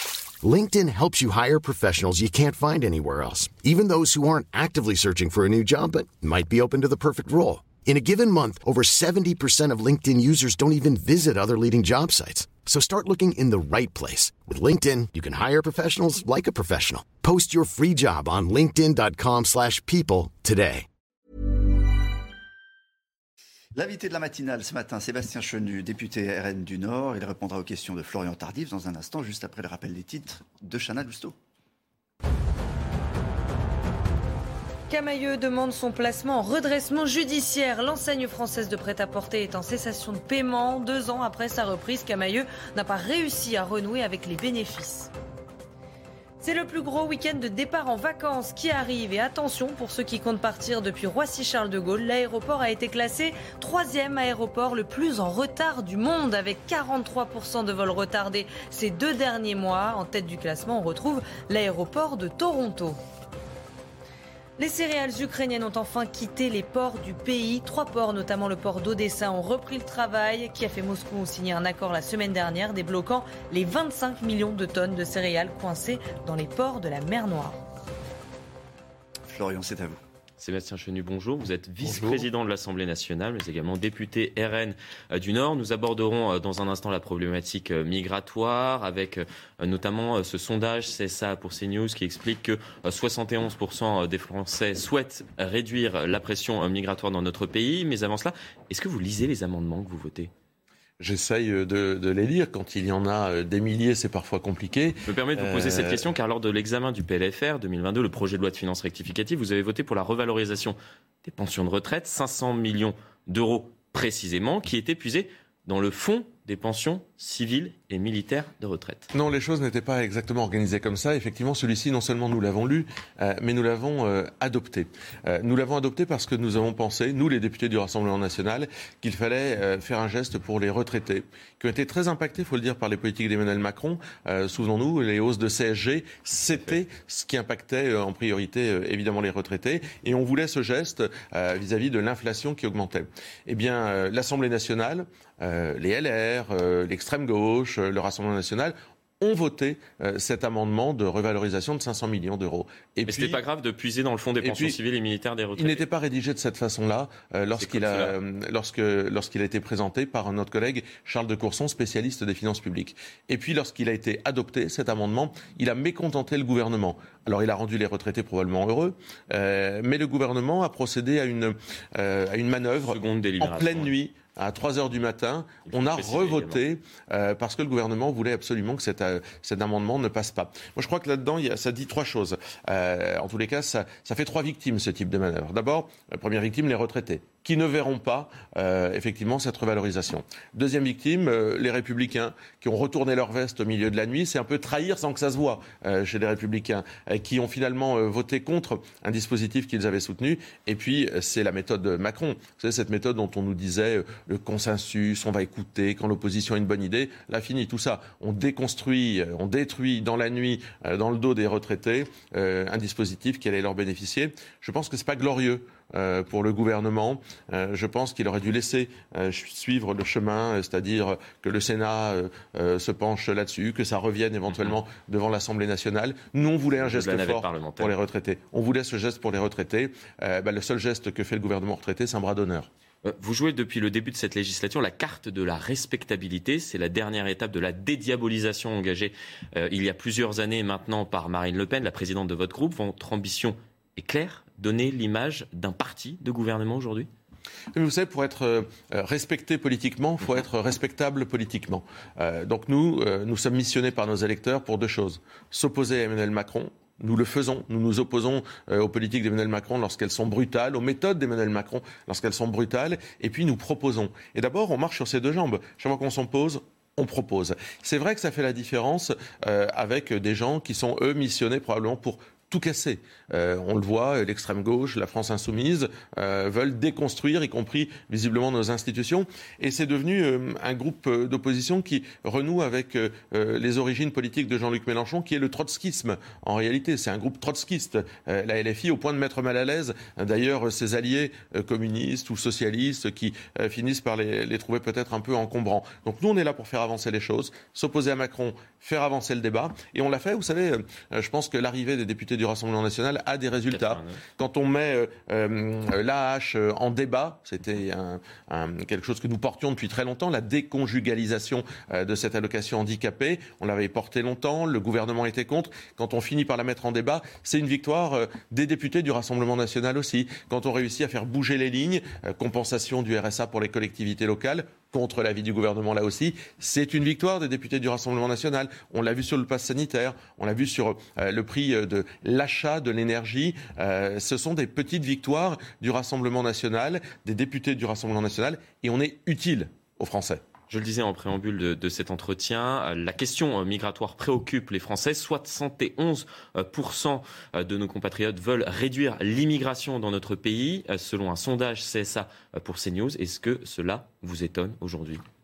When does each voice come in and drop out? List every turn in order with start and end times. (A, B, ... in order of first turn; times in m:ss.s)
0:00.4-0:20.8 A
0:23.7-0:31.3 B
0:34.9-0:45.1 C
0:46.4-1:03.0 C
1:04.6-1:17.6 C
1:19.3-1:20.0 B
1:20.4-1:40.3 D
1:21.9-1:22.2 B
1:41.0-1:46.0 E
1:45.0-1:59.1 D
1:59.1-2:33.4 E
2:33.0-2:35.8 D
2:34.4-2:34.8 E
2:35.6-3:52.7 E
2:37.5-2:38.2 D
2:52.8-2:53.9 D
2:55.6-2:56.6 D
3:46.8-3:47.9 D
3:53.0-4:07.1 D
4:07.7-5:40.4 E
5:03.7-5:04.2 D
5:40.7-5:55.2 D